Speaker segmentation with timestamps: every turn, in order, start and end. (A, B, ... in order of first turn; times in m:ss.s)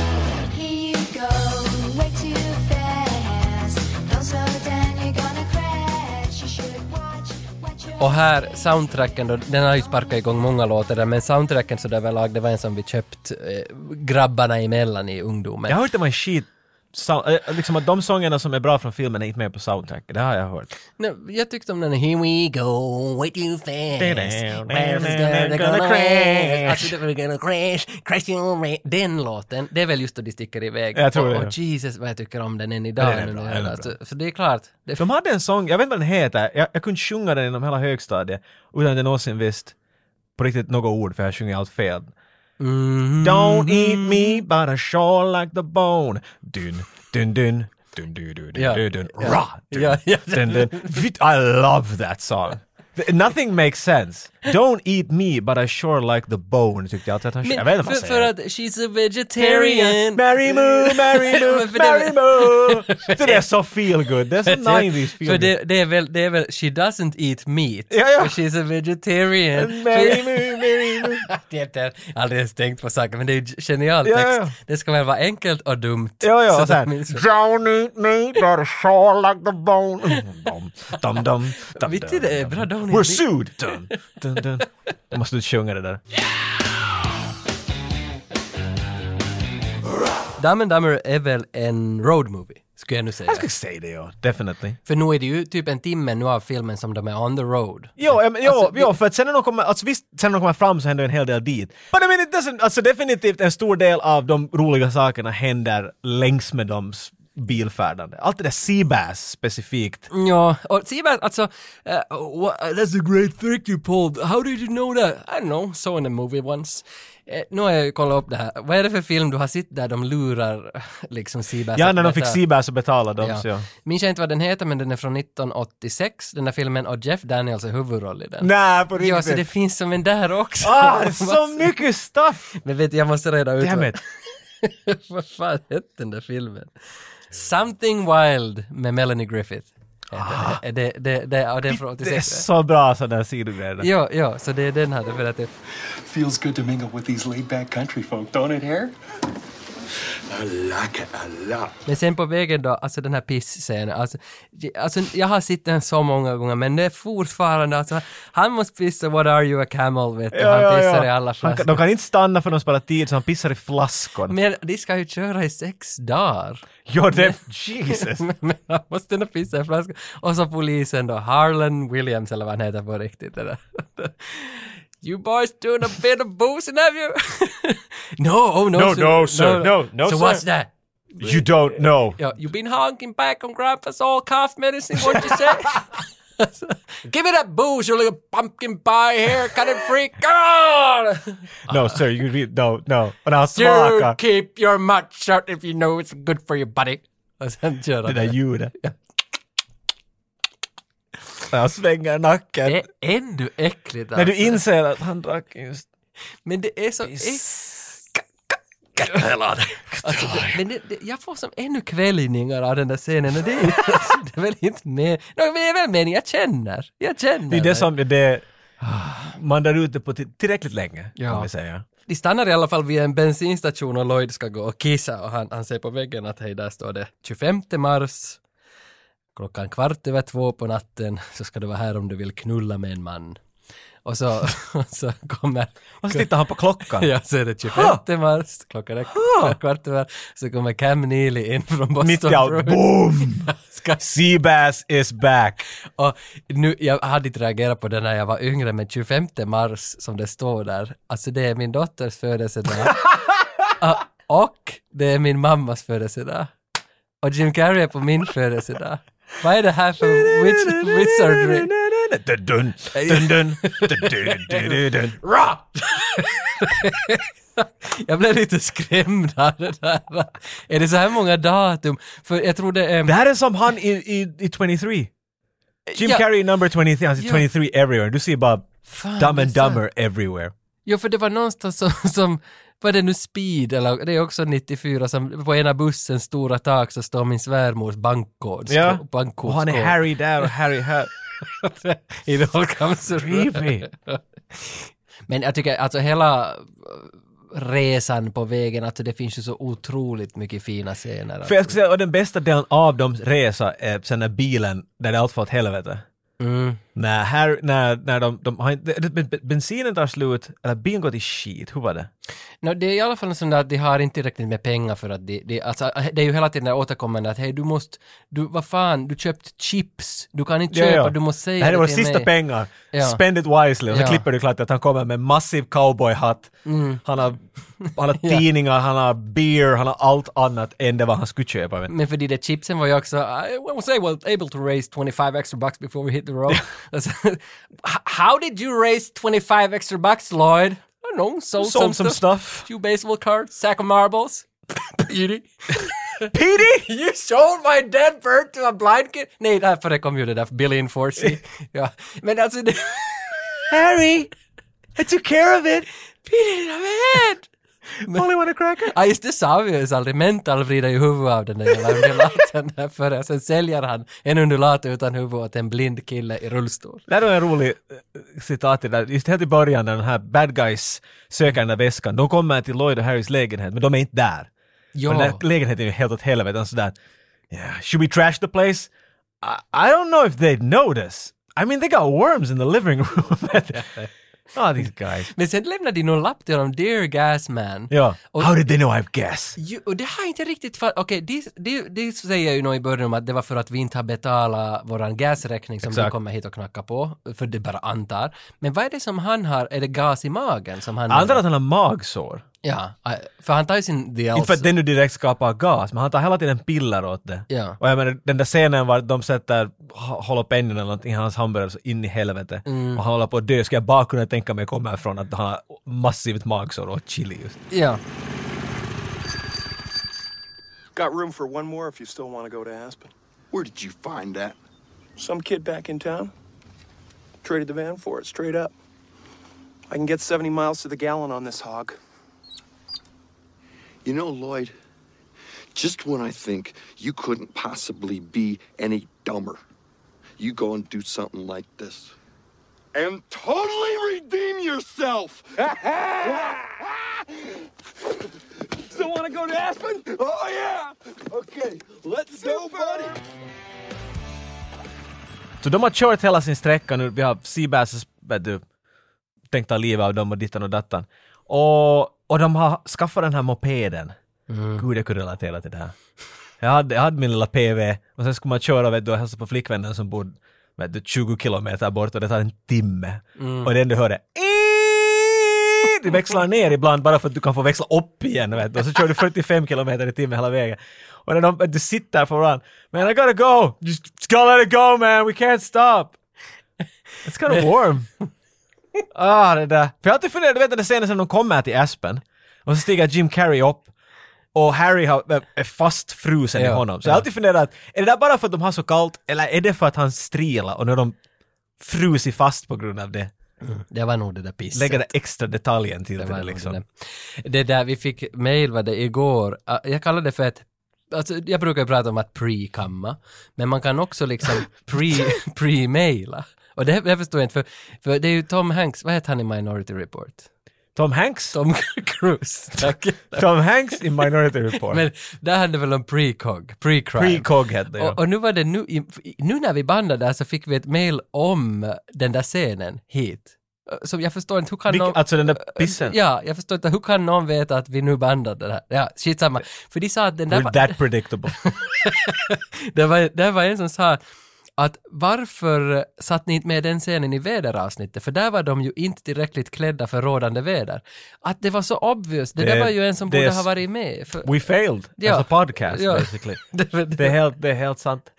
0:00.4-0:09.2 A
0:08.0-0:15.8 B
0:09.7-0:10.2 A
0:15.7-0:20.7 C
0:21.0-0:35.1 B
0:24.0-0:26.9 C
0:31.0-0:31.5 C
0:33.0-0:33.9 C
0:35.0-0:39.8 C
0:40.4-0:42.1 C
0:42.6-0:44.4 B
0:43.2-0:58.3 C
0:48.6-0:51.0 B
0:57.4-1:03.4 B
0:59.4-1:05.5 C
1:04.4-1:17.2 B
1:07.9-1:08.4 C
1:09.6-1:11.2 C
1:14.0-1:14.6 C
1:16.2-1:26.0 C
1:21.7-1:23.3 B
1:30.4-1:33.5 B
1:33.3-1:34.8 C
1:34.9-1:38.9 B
1:38.0-1:50.1 C
1:50.1-2:02.4 B
2:01.8-2:03.7 C
2:03.2-2:11.7 B
2:08.4-2:09.5 C
2:10.6-2:12.4 C
2:12.6-2:14.0 B
2:13.6-2:14.0 C
2:14.6-2:16.7 B
2:17.3-2:22.5 B
2:20.2-2:20.6 C
2:21.7-2:23.9 C
2:23.8-2:25.5 B
2:26.1-2:28.9 D
2:30.3-2:31.7 D
2:31.9-2:41.8 B
2:40.3-2:44.4 C
2:44.3-2:47.4 B
2:46.9-2:48.2 C
2:48.0-3:11.9 B
2:58.7-3:00.4 C
3:01.2-3:02.2 C
3:05.0-3:05.4 C
3:11.7-3:14.2 C
3:13.6-3:19.0 B
3:18.0-3:18.7 C
3:21.5-3:22.8 C
3:22.6-3:24.6 B
3:24.2-3:25.9 C
3:26.5-3:28.2 B
3:27.0-3:27.8 C
3:29.0-3:30.6 C
3:29.0-3:37.9 B
3:33.6-3:33.9 C
3:37.5-3:41.8 C
3:41.2-3:41.5 B
3:42.1-3:48.4 B
3:49.4-3:53.4 B
3:54.0-3:56.3 B
3:56.0-3:57.1 C
3:56.9-4:04.0 B
3:57.7-3:58.0 C
3:59.1-3:59.6 C
4:02.0-4:05.6 C
4:06.0-4:13.0 B
4:13.8-4:16.5 B
4:17.2-4:21.7 B
4:20.0-4:25.2 C
4:22.9-4:33.1 B
4:33.0-4:35.1 C
4:35.9-4:36.2 B
4:36.0-4:40.5 C
4:37.2-4:37.4 B
4:38.9-4:39.8 B
4:40.9-4:50.0 B
4:48.7-4:51.1 C
4:51.4-5:01.8 B
4:53.2-4:53.9 C
5:01.4-5:06.0 C
5:06.4-5:06.8 B
5:07.0-5:12.1 C
5:12.6-5:22.3 B
5:20.7-5:31.9 C
5:22.9-5:23.2 B
5:23.9-5:24.2 B
5:26.7-5:27.0 B
5:27.8-5:28.4 B
5:31.9-5:53.6 B
5:41.6-5:42.7 C
5:46.3-5:46.9 C
5:53.7-5:54.3 C
5:55.0-5:55.9 C
5:56.3-5:57.5 B
5:58.1-5:58.9 C
5:58.9-6:07.0 B
6:07.1-6:14.5 C
6:15.0-6:15.4 B
6:15.1-6:17.0 C
6:17.5-6:18.9 C
6:19.4-6:23.9 C
6:23.7-6:24.1 B
6:24.5-6:25.3 C
6:25.3-6:28.5 B
6:27.9-6:29.6 C
6:29.6-6:41.4 B
6:35.8-6:36.1 C
6:41.1-6:42.4 C
6:42.6-6:44.7 B
6:44.4-6:57.6 C
6:47.5-6:47.8 B
6:52.7-6:53.0 B
6:57.7-6:58.0 B
7:01.0-7:03.1 E
7:03.5-7:04.6 F
7:05.2-7:06.3 E
7:07.4-7:08.7 E
7:09.9-7:12.0 E
7:14.0-7:14.7 F
7:15.8-7:19.6 F
7:20.4-7:22.1 F
7:23.0-7:25.5 F
7:26.1-7:26.6 F
7:29.7-7:33.1 F
7:32.5-7:32.8 E
7:35.6-7:38.6 C
7:39.5-7:44.1 C
7:44.5-7:44.8 B
7:44.8-7:45.9 C
7:46.6-8:06.2 C
7:53.4-7:53.7 B
8:07.2-8:08.1 C
8:09.1-8:13.9 C
8:14.6-8:21.2 C
8:16.6-8:17.2 B
8:21.8-8:23.3 C
8:23.6-8:25.1 B
8:24.7-8:26.8 C
8:26.2-8:40.5 B
8:41.0-8:41.6 C
8:41.5-8:43.5 B
8:43.4-8:45.0 C
8:44.8-9:01.0 B
8:47.2-8:48.2 C
8:54.9-8:56.2 C
9:00.5-9:01.6 C
9:01.6-9:04.2 B
9:04.8-9:14.6 B
9:12.6-9:13.7 C
9:14.4-9:16.6 C
9:15.2-9:17.4 B
9:17.2-9:18.3 C